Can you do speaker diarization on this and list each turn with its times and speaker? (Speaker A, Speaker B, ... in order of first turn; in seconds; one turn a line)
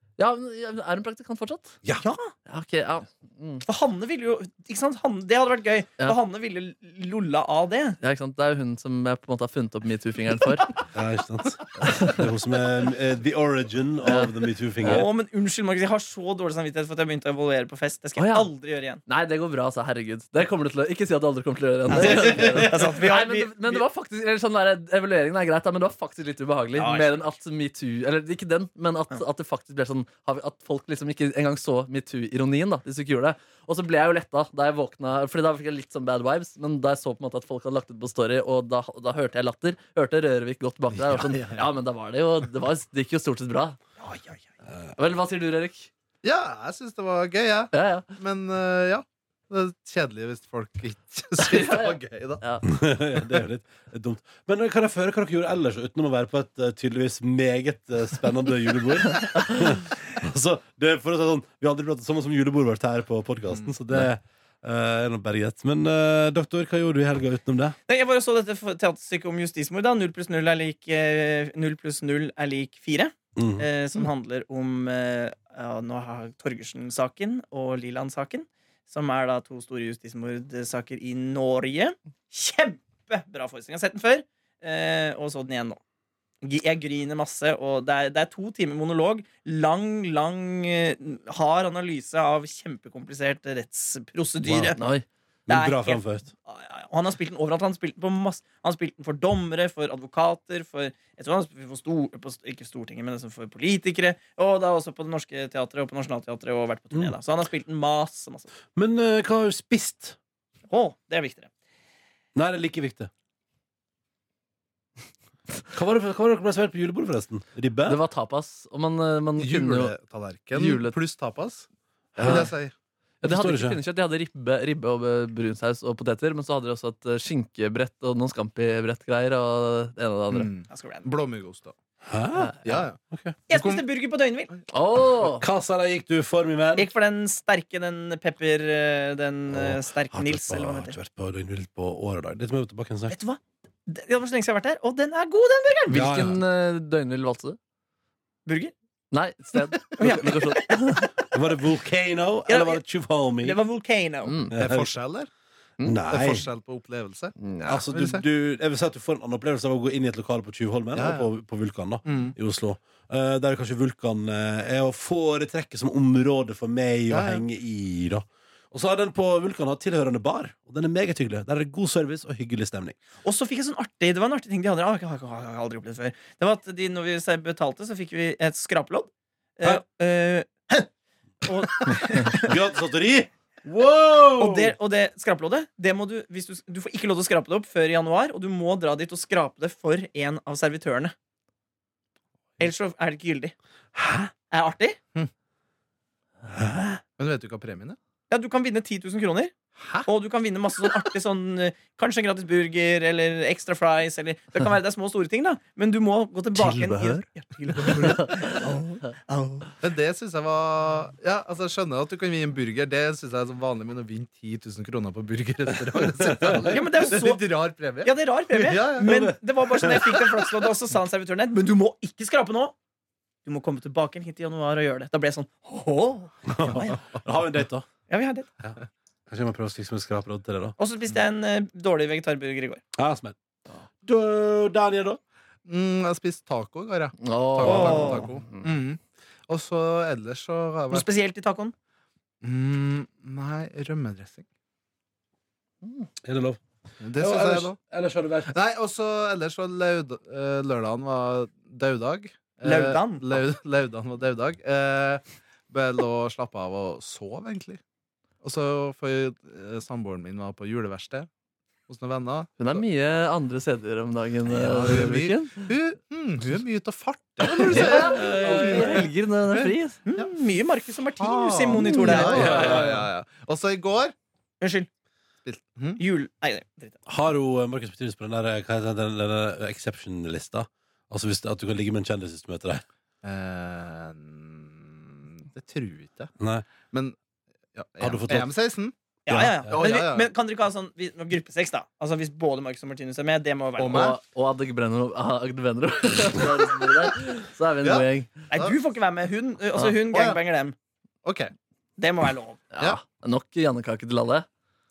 Speaker A: 0.2-1.8
Speaker B: 2.0-2.3
Speaker A: 2.5-3.6
Speaker B: 3.6-8.0
Speaker A: 8.0-10.8
Speaker C: 10.9-15.1
Speaker A: 11.8-12.2
Speaker A: 14.0-14.3
Speaker B: 14.8-19.0
Speaker A: 18.2-18.5
Speaker A: 19.1-43.8
Speaker B: 21.9-23.8
Speaker C: 22.0-22.9
Speaker B: 26.8-27.3
Speaker D: 41.3-41.6
Speaker A: 45.0-45.9
Speaker D: 46.2-52.4
Speaker A: 47.7-48.1
Speaker A: 51.4-52.6
Speaker C: 52.6-67.8
Speaker B: 67.9-85.8
Speaker C: 73.4-73.7
Speaker B: 86.4-94.8
Speaker C: 94.4-94.7
Speaker A: 94.8-95.0
Speaker C: 95.5-96.3
Speaker B: 95.5-108.5
Speaker C: 108.8-110.2
Speaker B: 110.7-111.5
Speaker C: 112.3-113.1
Speaker C: 115.7-118.0
Speaker A: 117.9-120.0
Speaker D: 119.4-121.7
Speaker A: 120.5-121.0
Speaker C: 122.1-122.5
Speaker A: 122.2-122.5
Speaker D: 122.2-122.7
Speaker A: 123.2-130.5
Speaker C: 123.2-123.8
Speaker D: 130.3-131.8
Speaker B: 130.7-131.1
Speaker C: 132.1-133.4
Speaker D: 132.6-133.0
Speaker B: 133.5-134.5
Speaker D: 133.5-133.8
Speaker A: 134.7-135.4
Speaker C: 135.2-136.9
Speaker B: 136.8-141.0
Speaker C: 139.5-143.2
Speaker B: 143.1-146.1
Speaker A: 145.9-147.6
Speaker C: 145.9-146.4
Speaker B: 148.5-148.7
Speaker A: 149.1-151.1
Speaker B: 150.0-151.1
Speaker C: 151.3-153.6
Speaker B: 152.5-152.8
Speaker B: 153.4-154.4
Speaker A: 154.2-154.5
Speaker C: 154.5-154.9
Speaker D: 154.5-155.3
Speaker C: 155.8-156.4
Speaker D: 156.1-157.3
Speaker A: 157.4-157.8
Speaker C: 157.7-173.0
Speaker D: 157.9-158.2
Speaker D: 160.9-161.3
Speaker D: 162.1-162.3
Speaker D: 167.1-167.4
Speaker B: 173.2-180.9
Speaker B: 181.4-182.6
Speaker C: 181.9-184.7
Speaker B: 184.4-191.1
Speaker B: 192.6-193.5
Speaker C: 193.9-194.3
Speaker B: 194.5-195.0
Speaker C: 196.5-197.0
Speaker D: 197.2-198.0
Speaker B: 198.3-199.5
Speaker D: 199.8-200.1
Speaker B: 200.1-209.7
Speaker A: 206.6-207.2
Speaker A: 207.8-208.6
Speaker D: 209.8-219.3
Speaker C: 216.2-216.7
Speaker B: 216.7-217.5
Speaker B: 218.0-222.8
Speaker C: 219.1-220.1
Speaker B: 223.4-227.0
Speaker C: 226.5-227.9
Speaker B: 228.1-228.5
Speaker C: 228.6-230.8
Speaker B: 230.8-232.8
Speaker C: 233.0-233.3
Speaker C: 234.0-235.2
Speaker D: 235.6-241.1
Speaker A: 237.2-238.7
Speaker B: 237.6-238.3
Speaker B: 240.9-241.7
Speaker D: 242.4-244.4
Speaker C: 246.2-246.6
Speaker D: 247.0-247.8
Speaker C: 247.2-248.5
Speaker D: 248.4-257.8
Speaker B: 252.6-253.4
Speaker D: 258.4-261.3
Speaker D: 261.9-262.8
Speaker A: 262.6-265.7
Speaker D: 264.5-270.3
Speaker A: 267.5-270.0
Speaker C: 267.8-268.9
Speaker B: 267.9-268.8
Speaker B: 270.1-273.0
Speaker D: 271.1-274.1
Speaker A: 271.7-272.7
Speaker C: 272.3-273.0
Speaker B: 274.6-274.9
Speaker D: 275.4-276.0
Speaker B: 276.0-277.0
Speaker C: 277.1-282.8
Speaker D: 283.2-286.3
Speaker C: 286.4-286.6
Speaker D: 286.9-287.1
Speaker D: 287.7-288.9
Speaker C: 288.0-288.5
Speaker B: 289.3-294.1
Speaker C: 289.3-289.8
Speaker D: 289.6-290.3
Speaker D: 293.8-294.2
Speaker A: 293.9-298.4
Speaker D: 297.8-298.8
Speaker B: 298.5-300.8
Speaker D: 300.1-300.4
Speaker D: 301.2-301.5
Speaker B: 302.0-302.6
Speaker A: 302.7-304.4